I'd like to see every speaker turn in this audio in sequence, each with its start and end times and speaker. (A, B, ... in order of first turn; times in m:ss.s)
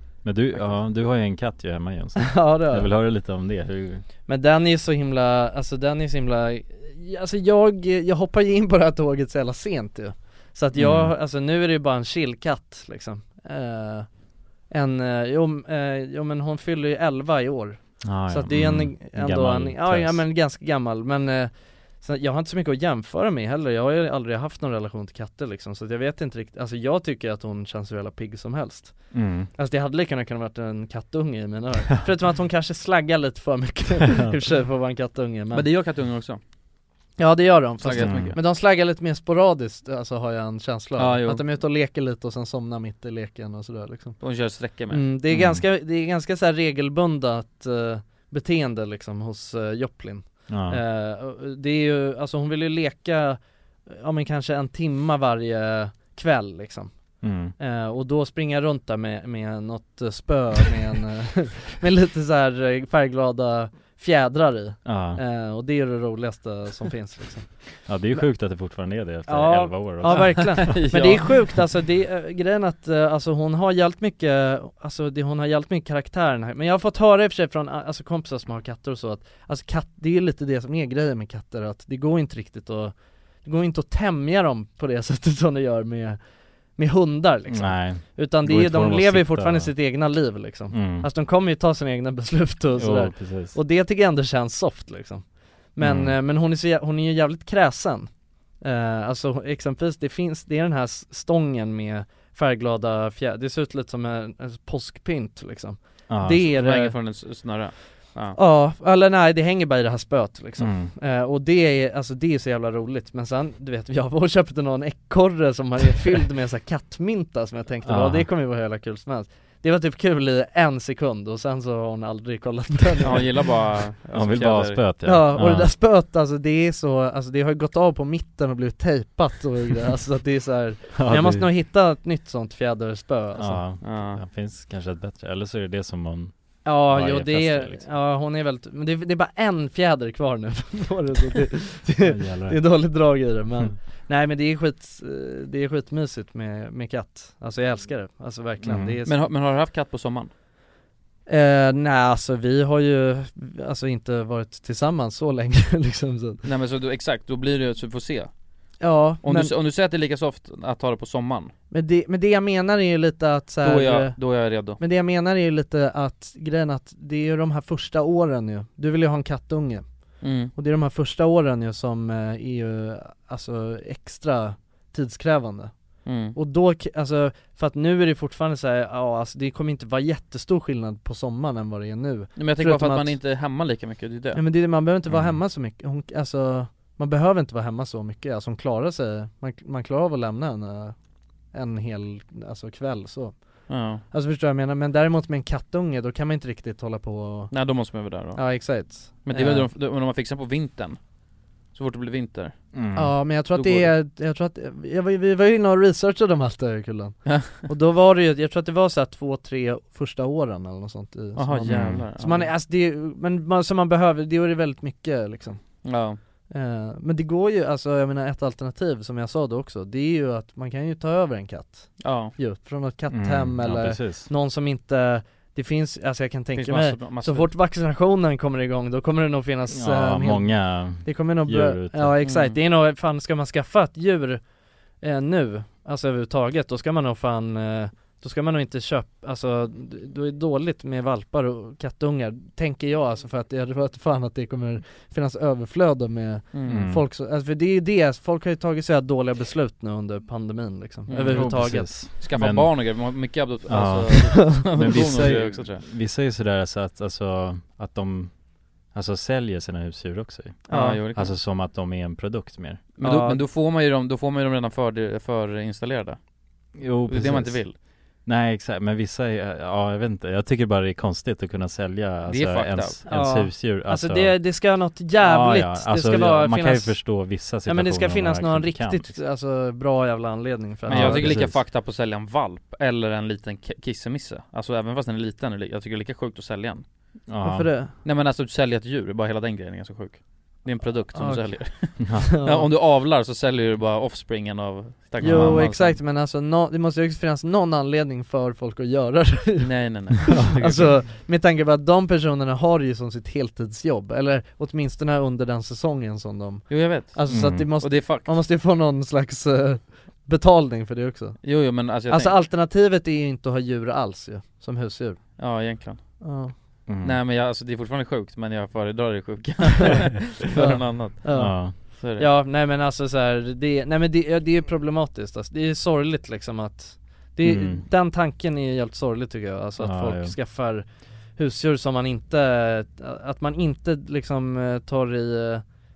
0:00.2-0:04.0 A
0:00.5-0:00.8 B
0:02.2-0:03.1 C
0:04.2-0:14.1 C
0:10.7-0:11.2 A
0:14.7-0:35.7 C
0:18.0-0:20.3 A
0:29.1-0:29.5 A
0:35.5-0:36.4 B
0:37.2-0:44.2 C
0:37.8-0:38.4 B
0:37.9-0:38.4 A
0:41.0-0:41.4 B
0:44.2-0:45.0 B
0:44.9-1:26.2 C
0:45.3-0:45.6 A
0:50.5-0:50.8 A
0:57.2-0:57.5 A
1:04.8-1:05.2 A
1:07.7-1:10.8 A
1:10.0-1:11.5 B
1:26.7-1:38.1 C
1:27.5-1:29.8 A
1:30.7-1:31.1 A
1:32.7-1:33.6 A
1:35.8-1:36.2 A
1:38.6-1:47.0 C
1:46.1-1:46.5 A
1:46.4-1:48.4 B
1:48.3-2:03.6 C
1:50.6-1:50.9 A
1:57.8-1:58.3 A
2:03.0-2:04.8 B
2:04.0-2:05.8 A
2:05.0-2:13.7 C
2:10.9-2:11.5 A
2:13.4-2:17.8 A
2:13.8-2:14.2 B
2:16.6-2:29.1 C
2:22.0-2:23.1 A
2:28.6-2:29.0 A
2:29.0-2:30.3 B
2:31.3-2:36.4 C
2:36.4-2:38.3 B
2:38.8-2:39.5 C
2:39.2-2:41.5 B
2:41.7-3:03.2 C
2:43.6-2:44.8 B
2:50.2-2:50.5 B
2:56.0-2:56.4 B
3:02.4-3:04.4 B
3:04.3-3:11.0 C
3:05.1-3:05.4 A
3:11.5-3:19.7 C
3:13.7-3:14.0 B
3:17.5-3:21.1 B
3:21.7-3:22.7 B
3:22.7-3:23.3 A
3:22.9-3:35.9 C
3:23.5-3:23.9 B
3:27.2-3:27.7 B
3:31.3-3:32.5 B
3:31.7-3:32.1 A
3:35.8-3:36.2 B
3:36.5-3:54.4 C
3:42.0-3:42.4 B
3:43.1-3:44.3 A
3:46.5-3:47.5 B
3:49.7-3:52.1 A
3:52.2-3:52.6 B
3:55.0-4:12.1 C
4:06.5-4:06.8 B
4:06.6-4:07.0 A
4:11.0-4:15.8 B
4:11.2-4:23.0 A
4:14.1-4:14.7 C
4:20.7-4:21.3 B
4:20.7-4:21.1 C
4:23.0-4:23.4 C
4:23.0-4:26.2 B
4:26.7-4:34.5 A
4:27.0-4:27.8 B
4:32.2-4:33.0 B
4:33.0-4:41.5 C
4:35.1-4:39.2 A
4:40.8-4:41.6 A
4:40.9-4:46.8 B
4:47.3-4:47.9 A
4:47.4-4:47.9 C
4:48.0-4:56.0 B
4:51.1-4:52.7 C
4:52.0-4:52.3 A
4:55.2-4:55.7 A
4:55.2-5:15.4 C
4:59.6-5:00.5 B
5:00.3-5:01.0 A
5:06.7-5:08.3 B
5:07.3-5:07.7 A
5:11.4-5:12.4 B
5:15.4-5:16.1 B
5:16.2-5:16.5 C
5:16.9-5:17.2 A
5:17.0-5:22.3 B
5:20.6-5:35.6 C
5:21.2-5:21.9 A
5:27.4-5:27.8 A
5:29.8-5:30.4 A